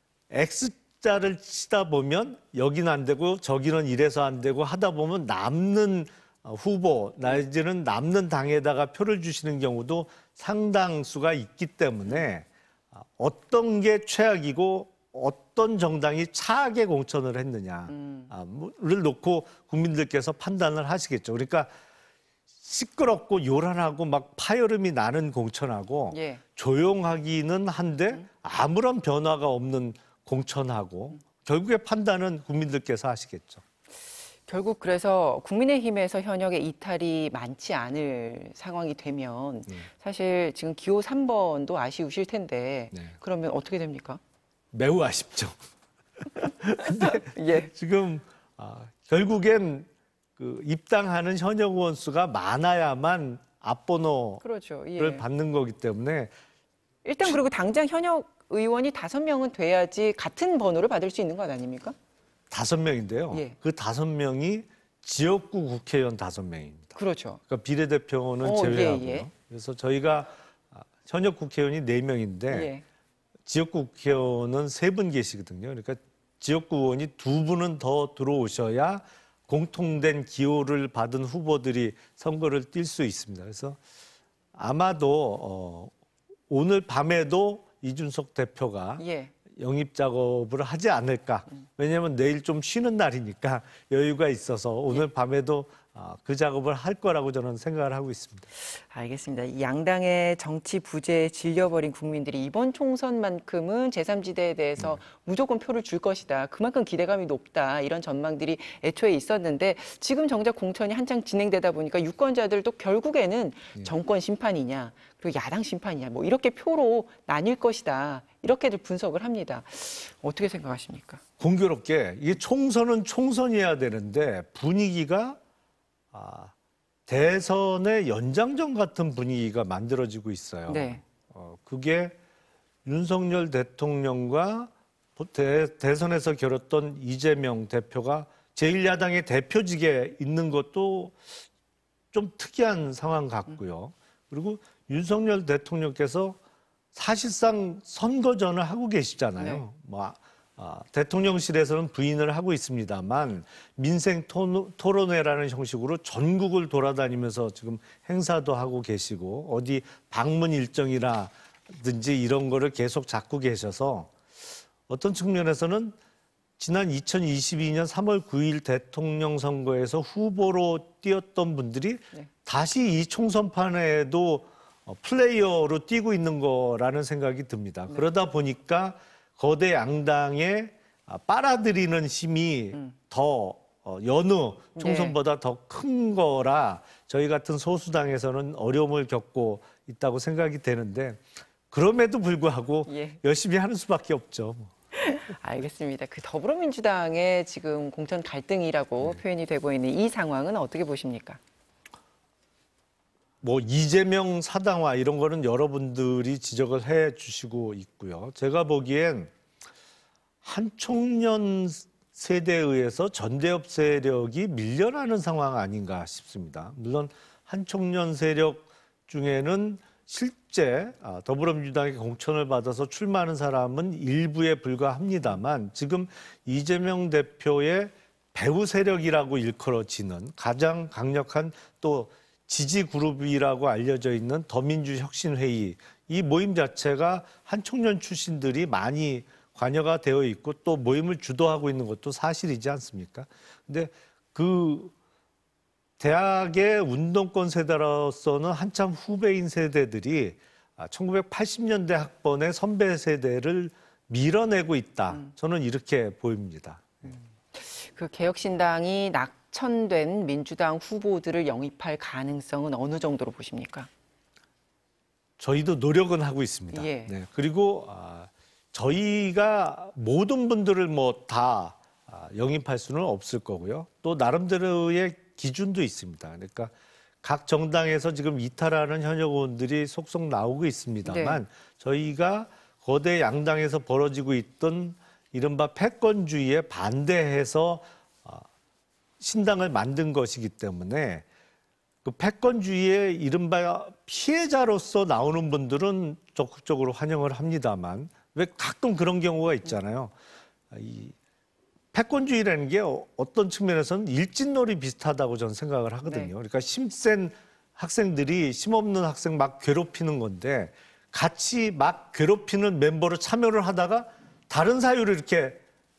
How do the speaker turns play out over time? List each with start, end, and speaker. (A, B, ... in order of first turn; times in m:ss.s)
0:00.3-0:21.7 A
0:17.9-0:18.3 B
0:22.6-0:33.6 A
0:26.1-0:26.4 B
0:34.5-0:44.2 B
0:44.7-0:45.6 A
0:46.2-0:54.4 A
0:46.8-0:47.7 B
0:54.4-0:55.2 B
0:55.0-0:56.3 A
0:57.0-1:01.9 B
1:02.5-1:06.9 A
1:07.0-1:07.4 B
1:07.5-1:12.7 A
1:08.4-1:09.3 B
1:12.5-1:12.8 B
1:13.4-1:23.8 A
1:24.5-1:25.9 A
1:26.5-1:38.5 A
1:29.0-1:29.3 B
1:38.9-2:01.2 B
2:01.4-2:05.4 A
2:06.1-2:06.5 A
2:07.1-2:12.2 A
2:10.7-2:11.0 B
2:12.8-2:21.3 A
2:22.1-2:26.4 A
2:26.9-2:44.1 A
2:44.9-2:46.0 A
2:46.6-3:14.7 A
3:04.8-3:05.2 B
3:12.9-3:13.2 B
3:14.9-3:21.4 B
3:23.4-3:29.3 A
3:30.4-4:04.9 A
4:06.0-4:17.1 A
4:17.1-4:23.9 B
4:25.4-4:48.4 A
4:26.7-4:27.1 B
4:41.0-4:41.4 B
4:49.2-4:51.2 A
4:52.0-5:00.1 A
5:00.7-5:01.1 A
5:01.9-5:15.6 A
5:06.1-5:06.3 B